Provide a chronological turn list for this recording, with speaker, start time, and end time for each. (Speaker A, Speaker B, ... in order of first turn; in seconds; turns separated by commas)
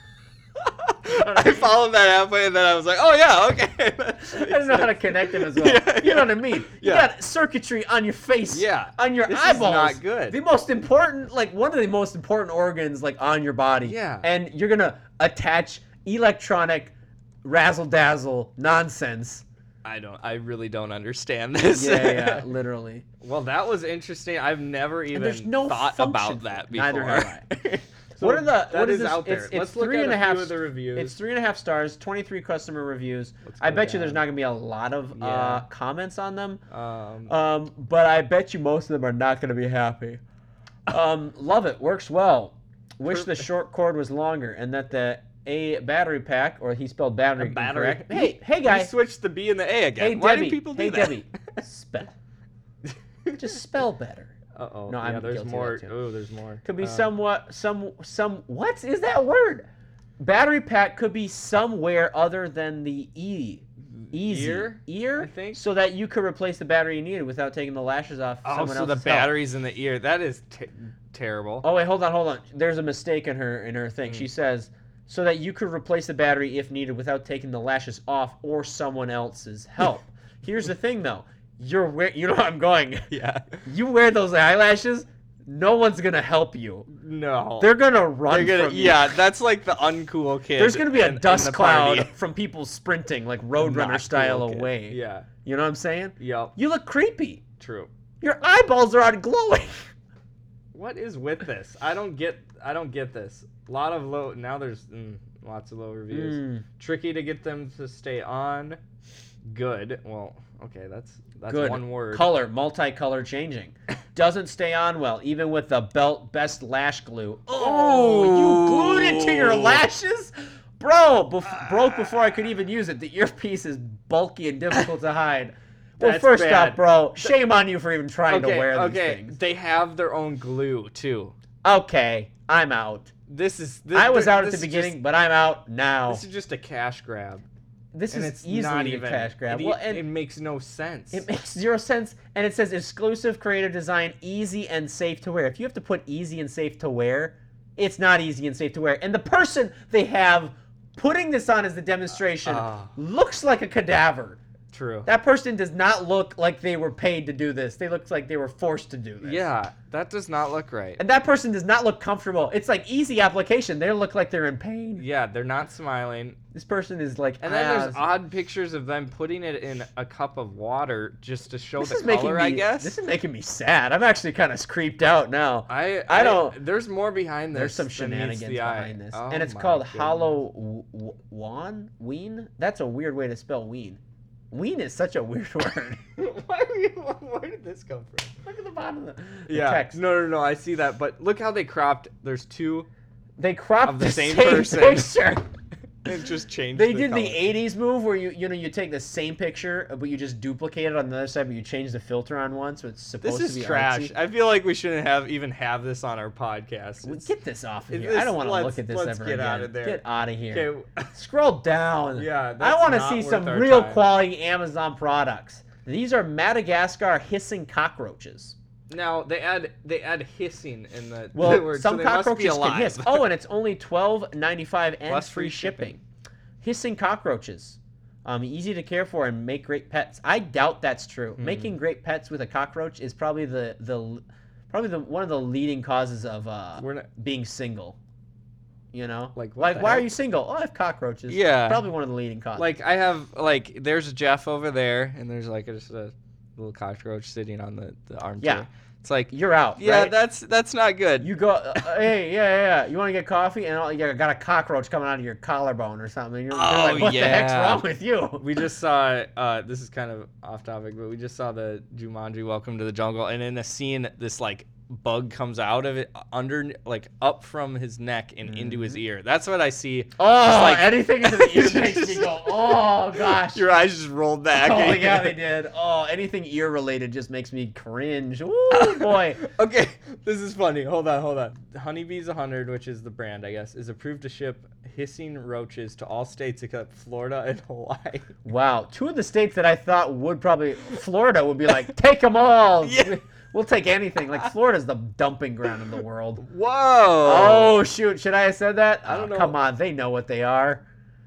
Speaker A: 0.6-7.1, Speaker B: 1.1-1.7, Speaker B: 4.2-16.9, Speaker A: 8.5-10.4, Speaker A: 13.8-14.3, Speaker B: 17.4-19.4, Speaker A: 19.8-22.4, Speaker B: 21.7-23.0, Speaker A: 23.2-31.1, Speaker B: 25.1-27.4, Speaker B: 28.2-36.6, Speaker A: 33.4-34.2, Speaker A: 35.1-35.6, Speaker A: 36.7-37.3, Speaker B: 37.3-40.2, Speaker B: 40.9-48.9, Speaker A: 43.1-43.5, Speaker A: 47.4-51.2, Speaker B: 50.0-52.1, Speaker A: 52.9-53.4, Speaker B: 53.3-54.3, Speaker A: 54.5-57.1, Speaker B: 54.9-55.9, Speaker B: 56.6-59.6, Speaker B: 60.2-69.3, Speaker A: 63.9-65.6, Speaker A: 68.4-71.6, Speaker B: 71.6-83.1, Speaker A: 83.1-83.6, Speaker B: 83.6-86.9, Speaker A: 86.9-87.7, Speaker B: 87.6-89.2, Speaker A: 88.3-92.1, Speaker B: 90.6-97.4, Speaker A: 93.6-95.3, Speaker A: 96.2-96.5, Speaker A: 97.6-97.9, Speaker B: 98.2-99.9, Speaker A: 100.7-108.8, Speaker B: 106.1-106.6, Speaker A: 109.5-112.3, Speaker B: 111.5-129.3, Speaker A: 117.5-119.8, Speaker A: 121.5-122.2, Speaker A: 126.0-127.3, Speaker A: 128.3-131.3, Speaker B: 131.6-133.1, Speaker A: 133.3-135.0, Speaker B: 133.9-136.2, Speaker A: 136.1-137.4, Speaker B: 137.9-140.0, Speaker A: 138.1-141.2, Speaker B: 141.1-154.4, Speaker A: 152.4-152.9, Speaker A: 154.7-155.1, Speaker B: 155.1-159.5, Speaker A: 159.2-161.0, Speaker B: 161.0-165.0, Speaker A: 165.0-166.4, Speaker B: 166.5-168.0, Speaker A: 167.4-172.9, Speaker B: 171.8-176.6, Speaker A: 175.7-180.4, Speaker B: 177.5-184.0, Speaker B: 184.5-186.0, Speaker A: 186.2-188.3, Speaker B: 188.4-190.0, Speaker A: 189.5-192.9, Speaker B: 193.4-195.4, Speaker A: 193.8-195.2, Speaker A: 196.0-197.4, Speaker B: 196.7-204.1, Speaker A: 203.2-207.3, Speaker B: 207.0-218.6, Speaker A: 207.9-211.1, Speaker A: 212.2-214.0, Speaker A: 218.9-223.3, Speaker B: 221.3-226.0, Speaker A: 225.1-226.0, Speaker B: 226.6-238.0, Speaker A: 231.4-231.7, Speaker A: 236.8-237.1, Speaker B: 238.9-242.7, Speaker A: 239.3-240.1, Speaker A: 241.3-241.8, Speaker A: 242.6-251.3, Speaker B: 248.4-248.7, Speaker B: 249.3-250.1, Speaker B: 251.2-258.4, Speaker A: 256.5-257.8, Speaker A: 258.4-275.4, Speaker B: 268.4-269.0, Speaker B: 270.2-273.6, Speaker B: 274.5-279.4, Speaker A: 278.7-288.3, Speaker B: 288.4-296.4, Speaker A: 292.8-293.2, Speaker A: 296.4-297.8, Speaker B: 297.2-300.8, Speaker A: 299.1-299.6